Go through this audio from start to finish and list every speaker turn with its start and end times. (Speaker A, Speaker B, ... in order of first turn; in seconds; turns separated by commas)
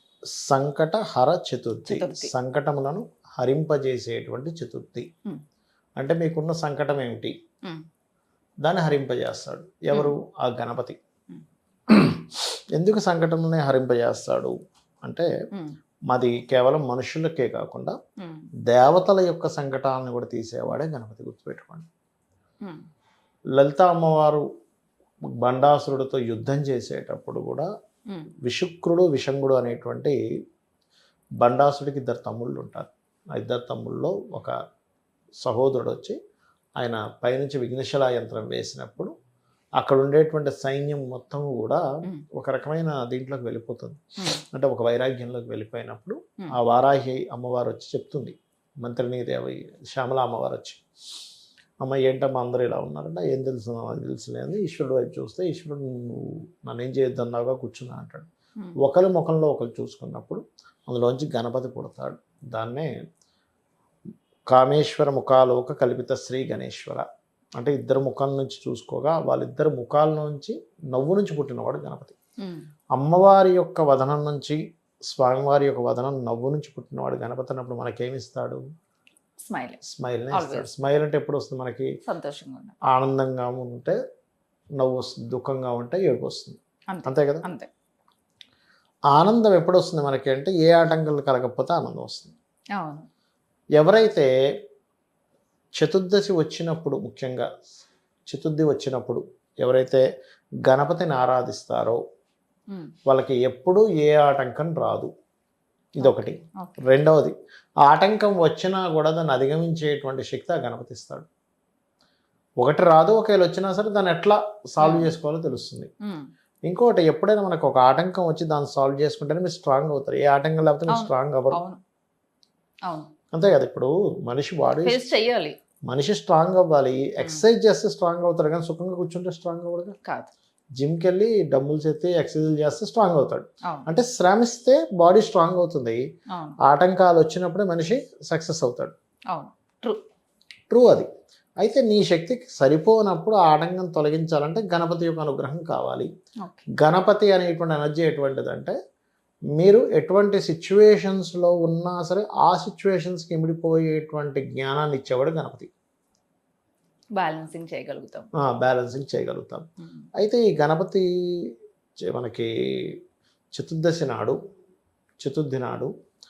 Speaker A: 0.4-5.1, Speaker B: 1.9-2.3, Speaker A: 6.0-7.3, Speaker A: 8.6-11.0, Speaker A: 11.9-15.3, Speaker A: 16.1-18.0, Speaker B: 18.2-18.5, Speaker A: 18.7-21.9, Speaker A: 23.6-24.4, Speaker A: 25.4-27.7, Speaker A: 28.4-30.2, Speaker A: 31.4-34.5, Speaker A: 35.4-36.2, Speaker A: 36.8-39.1, Speaker A: 39.8-41.8, Speaker A: 42.3-50.8, Speaker A: 51.8-58.3, Speaker A: 58.8-62.9, Speaker A: 64.5-67.0, Speaker A: 67.6-72.2, Speaker A: 73.0-74.6, Speaker A: 75.1-78.6, Speaker B: 79.5-79.8, Speaker A: 79.8-81.9, Speaker B: 80.3-80.7, Speaker B: 82.1-82.8, Speaker A: 82.9-84.0, Speaker A: 84.8-87.5, Speaker B: 86.9-87.7, Speaker A: 89.1-92.3, Speaker B: 92.8-93.1, Speaker A: 93.8-94.3, Speaker A: 95.8-97.5, Speaker A: 98.3-100.0, Speaker A: 100.6-102.0, Speaker A: 103.1-105.1, Speaker A: 106.0-111.3, Speaker B: 106.0-106.8, Speaker A: 112.6-115.9, Speaker B: 114.8-115.1, Speaker A: 116.7-121.6, Speaker B: 120.9-121.8, Speaker A: 123.3-125.0, Speaker B: 124.8-125.5, Speaker A: 125.9-130.0, Speaker B: 127.2-127.5, Speaker B: 130.1-130.3, Speaker A: 130.8-136.0, Speaker A: 136.6-138.9, Speaker B: 139.3-140.0, Speaker A: 140.7-141.1, Speaker A: 141.6-146.1, Speaker A: 146.8-148.8, Speaker A: 149.6-155.7, Speaker B: 157.2-158.3, Speaker A: 158.4-159.7, Speaker A: 160.2-161.5, Speaker A: 162.1-163.0, Speaker A: 163.5-164.4, Speaker A: 165.2-165.9